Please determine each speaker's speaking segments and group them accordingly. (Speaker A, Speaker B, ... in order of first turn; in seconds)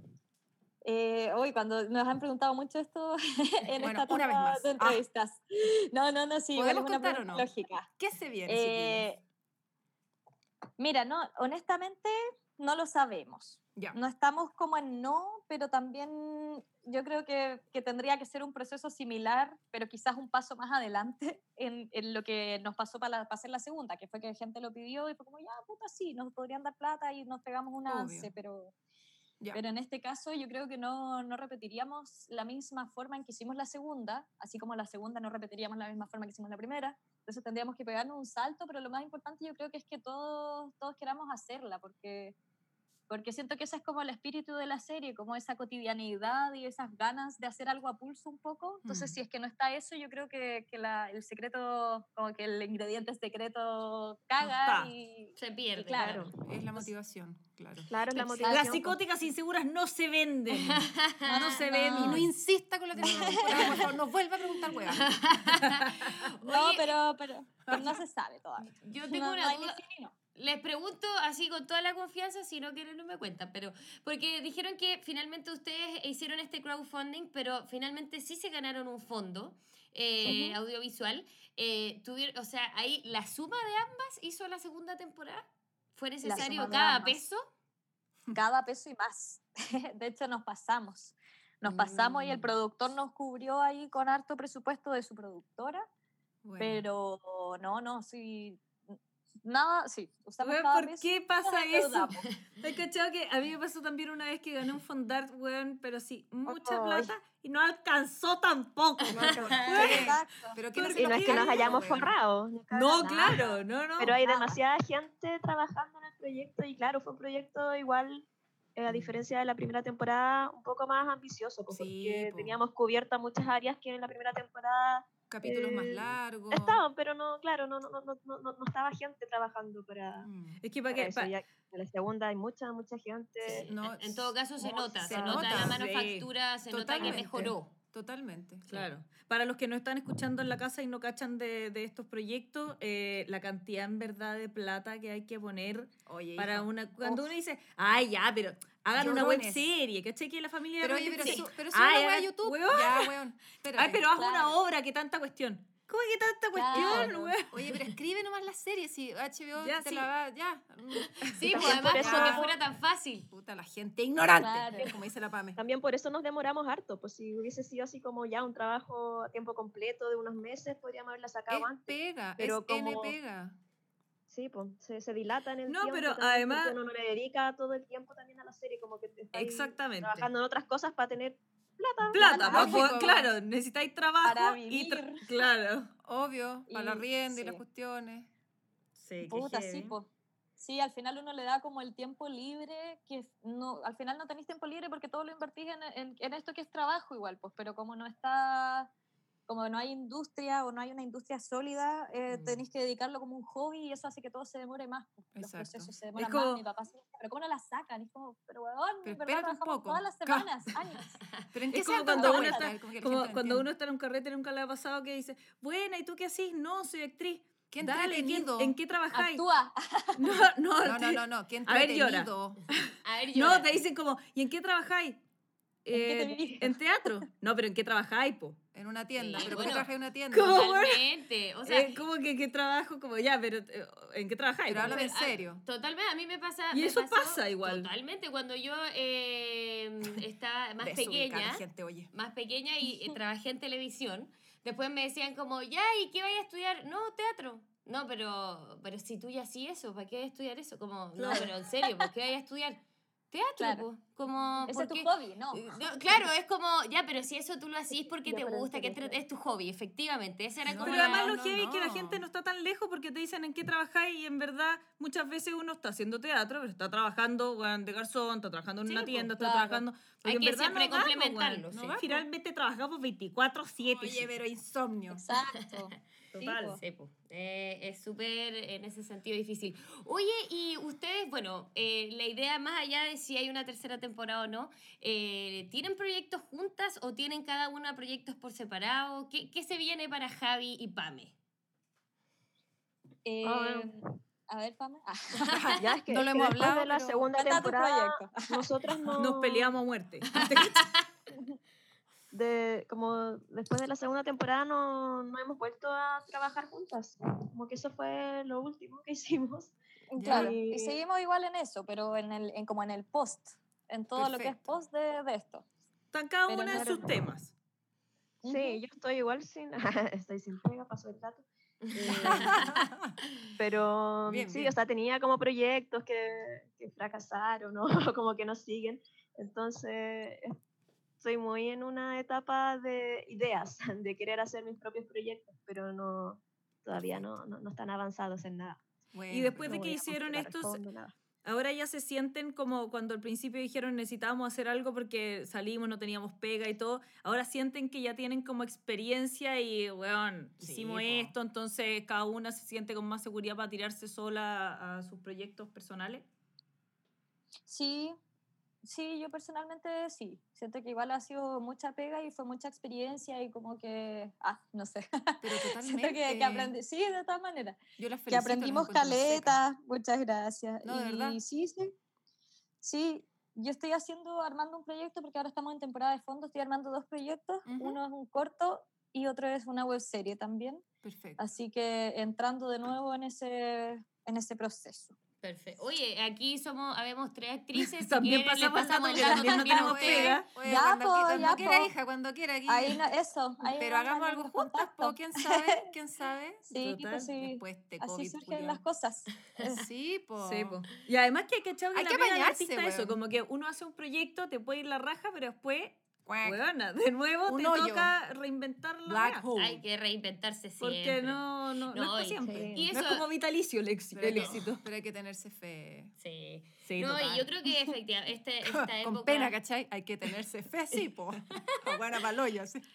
Speaker A: 0.8-7.9, 8.4-9.2, 10.8-28.7, 29.5-42.4, 43.1-56.9, 58.1-58.9, 61.3-62.3, 63.0-63.9, 66.4-70.1, 80.2-80.6, 86.2-87.2, 88.3-95.9, 96.6-102.3, 106.5-107.1, 109.7-110.6, 113.0-113.6, 114.2-114.6, 154.2-154.6, 156.5-157.3, 164.4-164.9, 182.2-182.9, 184.2-185.3, 186.7-187.6, 189.2-198.9, 199.5-211.1, 211.8-212.7, 219.1-220.3, 225.9-227.2, 253.6-253.9, 254.7-255.6, 269.4-269.8, 275.1-276.8, 293.2-295.5, 297.4-299.2, 310.1-315.7, 316.5-317.0, 318.4-318.8, 357.7-358.2, 358.8-371.9, 372.8-380.8, 381.4-385.1, 390.5-391.9, 392.7-395.8, 396.7-399.8
Speaker B: 3.8-5.0, 6.5-9.1, 27.9-28.3, 48.8-49.2, 56.4-57.9, 62.0-65.1, 67.7-68.0, 91.6-92.5, 96.4-96.8, 109.1-112.1, 121.7-122.6, 125.3-126.8, 130.2-130.6, 133.6-134.3, 135.0-135.9, 136.7-138.9, 146.1-146.7, 148.9-149.7, 150.8-154.0, 156.7-162.5, 163.3-165.6, 171.5-173.6, 182.5-183.3, 186.0-188.3, 205.4-205.9, 209.0-210.7, 211.5-213.7, 217.7-218.8, 220.8-222.6, 228.7-230.6, 234.7-235.6, 240.8-242.1, 260.7-262.2, 271.7-272.3, 273.8-275.2, 295.5-297.3, 310.2-310.6, 314.2-314.7, 322.2-323.1, 324.3-324.8, 336.9-337.3, 339.1-339.9, 350.6-351.3, 365.4-366.7, 368.0-369.6, 370.8-371.4, 377.7-378.0, 381.0-381.4, 389.5-393.1, 393.7-398.8, 399.6-400.8, 401.9-403.2, 406.3-406.6, 407.4-408.1, 409.1-409.8, 414.1-416.1, 418.6-422.8
Speaker C: 54.4-54.9, 58.4-62.3, 100.4-110.2, 110.7-111.9, 112.7-114.2, 130.6-131.4, 135.5-136.3, 137.0-137.5, 138.7-153.1, 153.8-157.7, 159.6-160.1, 175.7-176.8, 179.3-180.3, 182.1-185.9, 188.9-190.0, 206.1-206.6, 211.7-219.4, 220.2-225.2, 225.8-228.6, 230.3-231.1, 231.7-235.0, 236.7-237.9, 251.2-251.5, 260.7-274.3, 276.4-276.8, 299.1-300.8, 316.1-317.5, 339.3-340.8, 341.4-356.3, 387.9-390.5, 396.8-397.3, 400.4-409.4, 410.8-414.9, 416.9-417.4
Speaker D: 55.4-56.4, 60.5-61.6, 64.8-66.9, 68.7-69.8, 70.3-87.5, 109.4-109.7, 133.4-137.7, 161.2-163.3, 202.3-202.6, 223.0-223.7, 229.2-232.0, 234.8-261.4, 268.9-269.3, 270.2-272.0, 275.3-275.8, 276.8-291.3, 300.4-301.0, 321.8-322.7, 385.4-390.4, 409.6-413.3, 416.2-419.6
Speaker E: 56.0-56.3, 57.9-59.0, 109.1-109.9, 111.0-130.3, 130.9-133.7, 134.6-135.6, 161.5-162.6, 165.6-173.1, 174.3-182.9, 258.3-259.2, 293.4-293.9, 295.7-299.8, 302.3-309.7, 310.3-311.0, 316.7-317.1, 318.4-322.7, 323.6-330.6, 331.2-338.8, 339.7-341.1, 412.4-412.9